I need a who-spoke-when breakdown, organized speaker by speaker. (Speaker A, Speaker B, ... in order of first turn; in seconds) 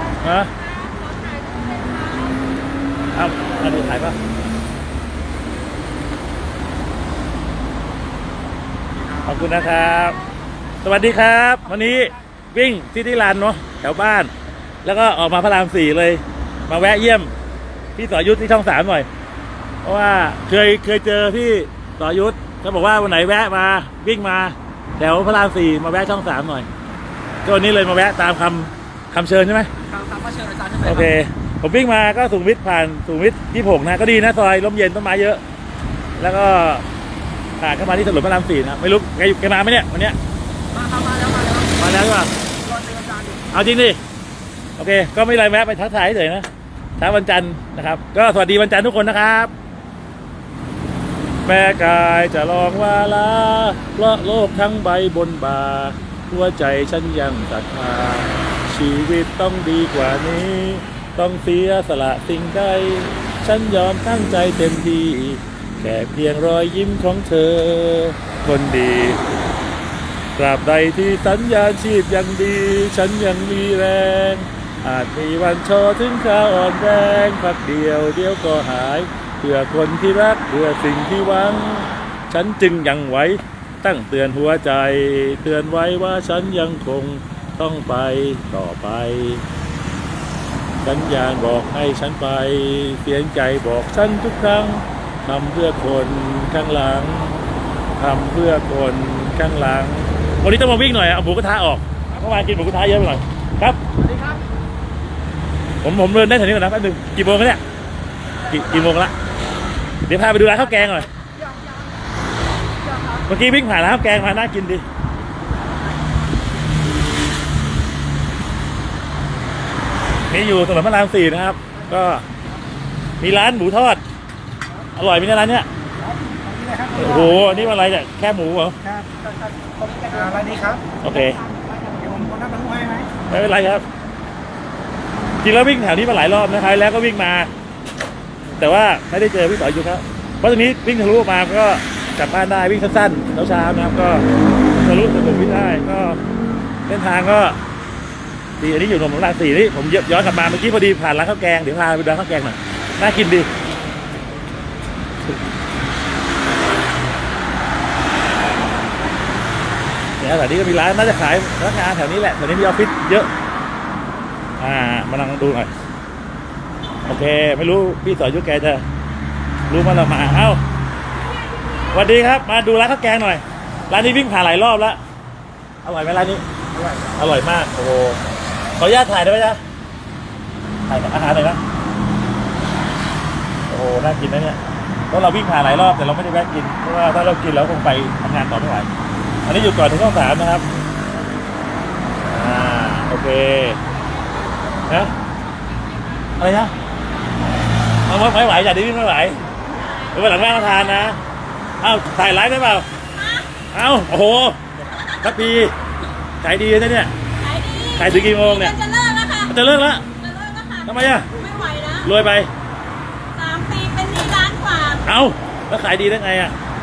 Speaker A: 0.2-0.5, 3.1-4.2, 9.2-10.2, 10.8-14.3, 14.8-17.3, 18.0-19.1, 19.8-26.7, 27.4-29.7, 30.8-35.4, 36.2-36.8, 37.6-40.2, 41.8-42.3, 43.5-44.0, 44.8-46.5, 47.0-49.5, 51.5-69.2, 70.4-89.4, 90.8-97.4, 98.0-103.8, 105.8-107.6, 108.4-109.1, 110.1-111.1, 113.2-114.8, 120.3-122.2, 123.2-124.0, 125.0-125.7, 126.9-128.8, 131.0-131.4, 133.3-133.8, 135.4-137.5, 138.6-144.3, 144.8-146.2, 146.9-147.6, 148.6-153.5, 160.2-163.3, 164.6-165.7, 167.1-168.8, 169.7-170.6, 171.9-175.0, 175.8-176.4, 177.1-178.2, 178.8-179.6, 180.9-181.6, 183.7-184.6, 185.1-188.9, 189.4-190.7, 192.2-193.8, 194.9-195.1, 196.4-196.7, 198.1-199.4, 200.1-201.2, 201.8-202.9, 203.7-204.6, 205.2-205.7, 206.4-207.1, 207.9-208.8, 209.5-210.1, 210.8-211.3, 212.0-212.5, 215.0-216.6
Speaker B: 1.1-2.3, 171.3-172.1, 194.1-194.8, 199.7-201.1, 203.1-203.5, 207.4-209.6, 210.1-212.1, 213.3-215.1
Speaker C: 29.8-31.1, 40.7-41.8, 42.6-43.5, 104.0-104.4, 110.5-111.7, 112.9-113.2, 115.4-116.2
Speaker D: 126.5-127.5, 129.6-130.8, 131.8-133.1